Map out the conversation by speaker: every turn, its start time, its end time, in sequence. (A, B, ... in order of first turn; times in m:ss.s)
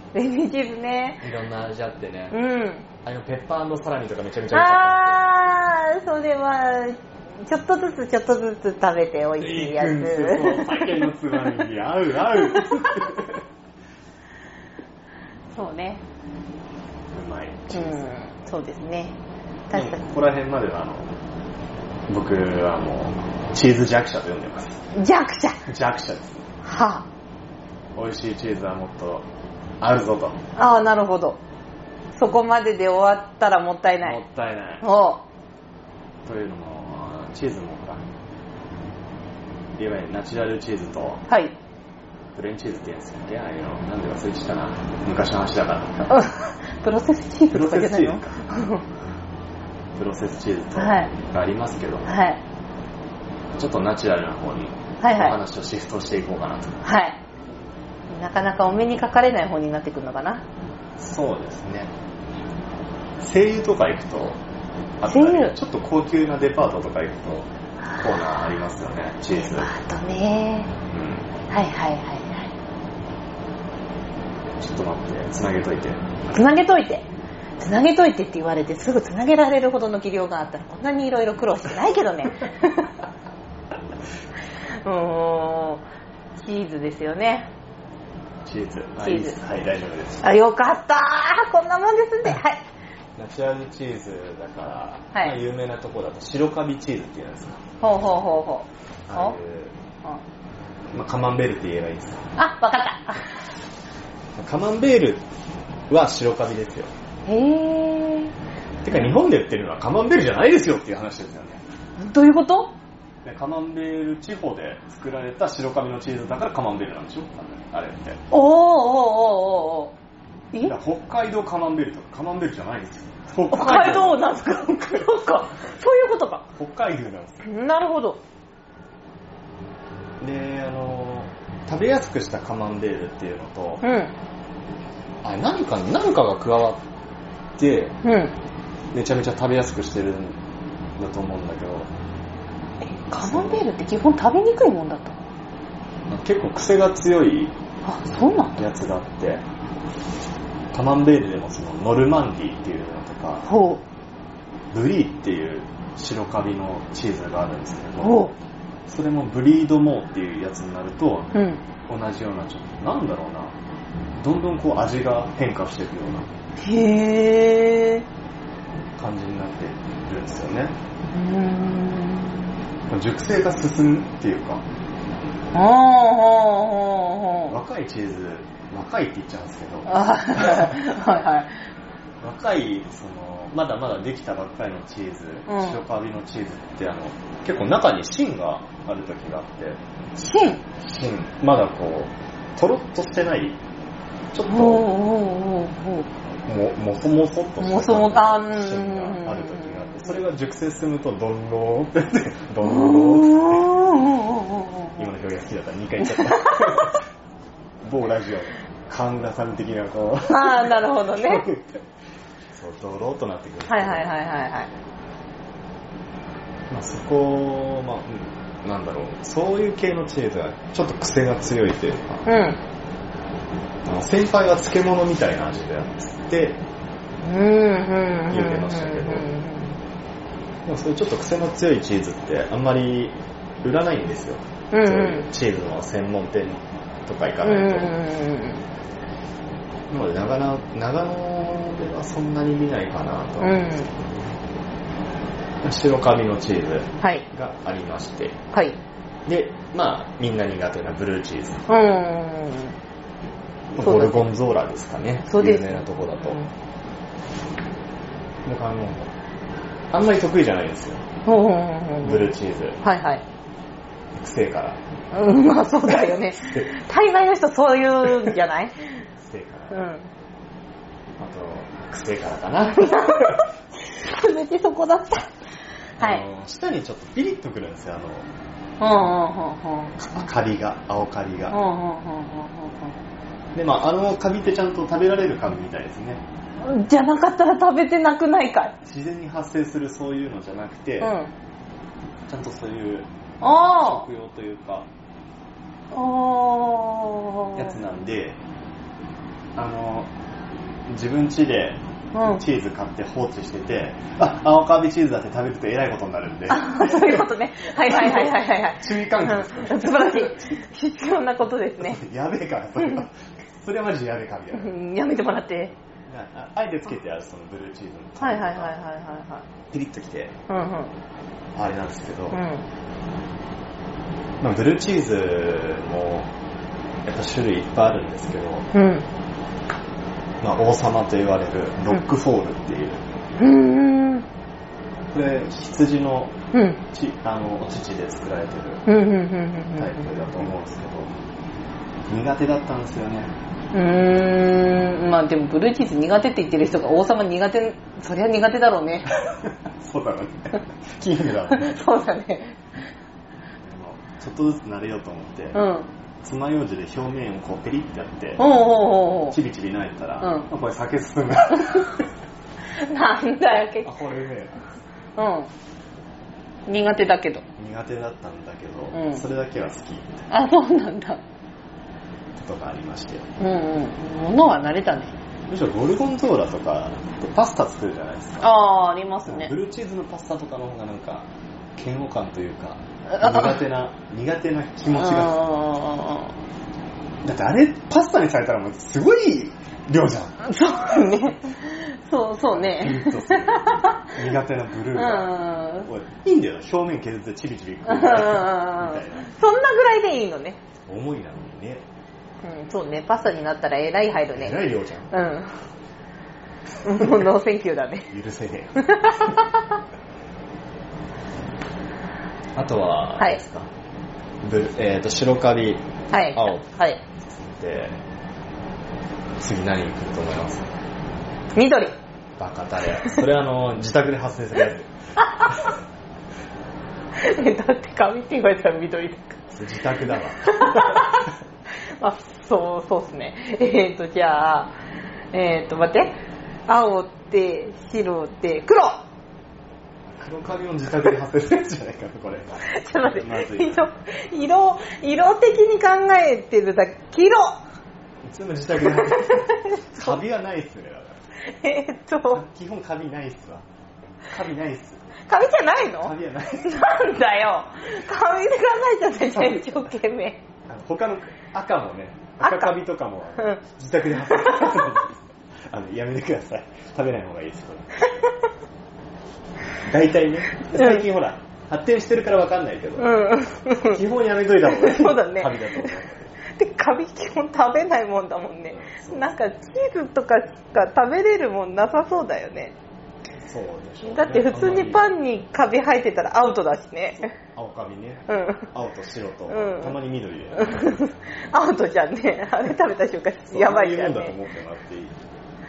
0:00.1-0:01.2 A
0:01.2-0:02.4 B
0:02.3-0:02.9 A
0:03.0-0:05.2 B
0:04.5-0:11.6 A
0:09.4-0:13.4 B
0:12.3-0:12.9 A
0:15.5-0:16.0 A
0:17.1-0:18.0 B
0:17.7-0:19.2 A
0:19.7-0:20.0 A
0:19.7-0:21.1 B
0:22.1-0:24.8 B
0:24.9-0:25.6 A
0:25.7-0:26.5 B
0:26.6-0:27.1 A
0:28.0-0:29.3 B
0:29.8-0:30.4 B
0:30.6-0:31.4 A
0:32.1-0:34.2 A
0:34.0-0:34.9 B
0:34.8-0:35.2 A
0:36.3-0:38.0 B
0:39.8-0:41.2 B
0:41.3-0:41.5 A
0:42.4-0:46.1 B
0:46.1-0:48.8 A
0:47.5-0:48.7 B
0:50.0-0:52.2 B
0:50.8-0:51.1 A
0:52.1-0:52.4 A
0:53.5-0:56.8 B
0:55.0-0:55.4 A
0:56.8-0:57.2 A
0:58.1-1:00.4 A
1:01.0-1:01.9 B
1:03.2-1:04.4 B
1:05.0-1:09.7 B
1:05.1-1:05.6 A
1:09.4-1:10.7 A
1:10.9-1:11.3 B
1:11.5-1:12.5 A
1:14.6-1:16.0 B
1:16.3-1:17.1 A
1:17.6-1:22.9 A
1:24.8-1:25.8 A
1:26.4-1:27.5 A
1:28.5-1:30.3 B
1:29.0-1:29.4 A
1:30.2-1:32.6 A
1:33.2-1:37.6 B
1:37.8-1:39.4 A
1:39.1-1:39.7 B
1:40.9-1:42.3 B
1:42.4-1:43.5 A
1:44.4-1:45.2 B
1:45.9-1:46.9 B
1:47.3-1:48.3 A
1:48.8-1:51.6 B
1:52.0-1:52.7 A
1:53.2-1:58.2 B
1:58.3-1:59.9 A
2:00.6-2:04.3 B
2:03.5-2:06.5 A
2:06.6-2:07.5 B
2:07.4-2:08.2 A
2:10.2-2:13.8 B
2:13.8-2:14.2 A
2:15.2-2:16.8 B
2:17.6-2:18.0 B
2:18.0-2:18.4 A
2:18.9-2:20.4 B
2:21.0-2:21.9 B
2:22.8-2:25.2 A
2:23.2-2:23.6 B
2:26.1-2:27.5 B
2:27.8-2:28.6 A
2:28.6-2:29.4 B
2:30.7-2:33.5 B
2:33.4-2:33.8 A
2:34.7-2:38.3 B
2:38.0-2:38.3 A
2:38.9-2:41.3 B
2:41.3-2:41.6 A
2:41.9-2:43.6 B
2:44.2-2:46.3 B
2:46.6-2:48.1 A
2:49.0-2:50.8 B
2:51.1-2:52.5 A
2:52.9-2:54.6 B
2:55.5-2:57.6 A
2:57.5-3:00.8 B
2:59.9-3:01.6 A
3:02.2-3:09.8 B
3:05.5-3:05.8 A
3:10.2-3:10.6 A
3:10.8-3:13.6 B
3:14.3-3:14.9 B
3:14.5-3:16.1 A
3:16.4-3:23.8 B
3:17.6-3:20.2 A
3:22.6-3:25.0 A
3:25.0-3:27.0 B
3:26.0-3:26.9 A
3:27.8-3:31.8 B
3:30.3-3:31.4 A
3:32.5-3:34.1 B
3:33.7-3:34.7 A
3:36.7-3:42.2 B
3:42.3-3:42.6 A
3:43.9-3:46.6 B
3:47.2-3:49.7 A
3:48.3-3:49.3 B
3:50.7-3:58.0 B
3:54.7-3:55.3 A
3:57.4-3:58.6 A
3:59.9-4:03.9 B
4:03.4-4:03.9 A
4:05.6-4:08.4 B
4:08.5-4:08.8 A
4:09.3-4:11.6 B
4:11.7-4:12.8 A
4:13.7-4:16.4 B
4:13.8-4:14.2 A
4:15.3-4:16.5 A
4:18.5-4:19.1 B
4:19.9-4:21.0 B
4:21.2-4:22.3 A
4:22.0-4:22.8 B
4:22.8-4:23.2 A
4:24.2-4:24.8 B
4:25.1-4:29.0 A
4:25.9-4:26.7 B
4:29.2-4:29.9 B
4:29.7-4:30.1 A
4:31.2-4:33.5 B
4:32.7-4:35.3 A
4:36.0-4:36.2 A
4:36.0-4:38.3 B
4:38.8-4:40.1 A
4:40.1-4:41.6 B
4:41.5-4:42.9 A
4:43.6-4:46.2 B
4:46.6-4:48.8 A
4:48.8-4:51.1 B
4:51.0-4:51.3 A
4:52.3-4:54.9 B
4:53.4-4:54.1 A
4:55.9-4:57.8 A
4:57.6-4:58.4 B
4:59.6-5:00.1 B
5:00.9-5:10.6 B
5:02.1-5:02.4 A
5:06.5-5:12.0 A
5:11.8-5:14.8 B
5:14.5-5:15.8 A
5:16.1-5:18.8 B
5:18.2-5:19.5 A
5:19.7-5:20.3 B
5:20.5-5:20.9 A
5:21.6-5:22.4 B
5:22.3-5:22.7 A
5:24.4-5:26.3 B
5:27.1-5:28.7 B
5:28.7-5:29.1 A
5:30.4-5:33.0 B
5:33.4-5:34.3 A
5:35.1-5:36.4 B
5:36.5-5:36.8 A
5:36.9-5:38.9 B
5:38.9-5:40.0 A
5:39.8-5:41.1 B
5:42.1-5:43.3 B
5:43.7-5:49.1 A
5:49.2-5:51.8 B
5:51.5-5:52.6 A
5:53.6-5:55.6 B
5:55.5-5:55.9 A
5:56.2-5:58.4 B
5:58.4-5:59.4 A
5:59.3-6:02.0 B
6:00.2-6:00.5 A
6:02.7-6:03.9 A
6:03.8-6:04.7 B
6:05.2-6:05.5 A
6:06.7-6:07.4 A
6:07.6-6:10.3 B
6:08.9-6:09.2 A
6:10.3-6:11.2 A
6:12.4-6:13.3 B
6:13.4-6:15.1 A
6:15.5-6:18.5 B
6:18.4-6:19.5 A
6:19.3-6:25.4 B
6:23.1-6:23.6 A
6:24.9-6:26.3 A
6:27.2-6:30.4 B
6:30.4-6:34.1 A
6:32.5-6:39.3 B
6:34.9-6:35.9 A
6:37.9-6:40.6 A
6:40.9-6:41.8 B
6:42.4-6:45.6 A
6:44.4-6:45.1 B
6:46.8-6:48.1 A
6:48.1-6:49.2 B
6:48.8-6:49.8 A
6:52.6-6:53.7 B
6:54.4-6:56.6 B
6:56.1-6:57.0 A
6:57.2-6:58.0 B
6:59.4-7:00.7 B
7:01.6-7:02.0 A
7:02.4-7:05.7 B
7:07.2-7:09.4 A
7:09.5-7:11.2 B
7:10.4-7:11.3 A
7:11.8-7:14.7 A
7:15.3-7:16.2 A
7:16.7-7:19.0 A
7:20.2-7:23.9 B
7:22.7-7:27.6 A
7:28.2-7:31.2 B
7:28.8-7:30.1 A
7:31.4-7:32.4 A
7:32.3-7:33.6 B
7:34.3-7:35.1 B
7:35.3-7:40.4 A
7:36.0-7:36.8 B
7:40.7-7:48.1 B
7:42.4-7:42.7 A
7:44.3-7:44.8 A
7:49.9-7:53.2 B
7:50.7-7:51.0 A
7:53.0-7:54.0 A
7:53.8-7:56.4 B
7:54.6-8:02.8 A
7:58.7-7:59.3 B
8:03.4-8:05.1 B
8:04.0-8:07.3 A
8:07.5-8:11.1 B
8:08.3-8:08.7 A
8:09.5-8:10.0 A
8:10.6-8:14.4 A
8:13.5-8:15.2 B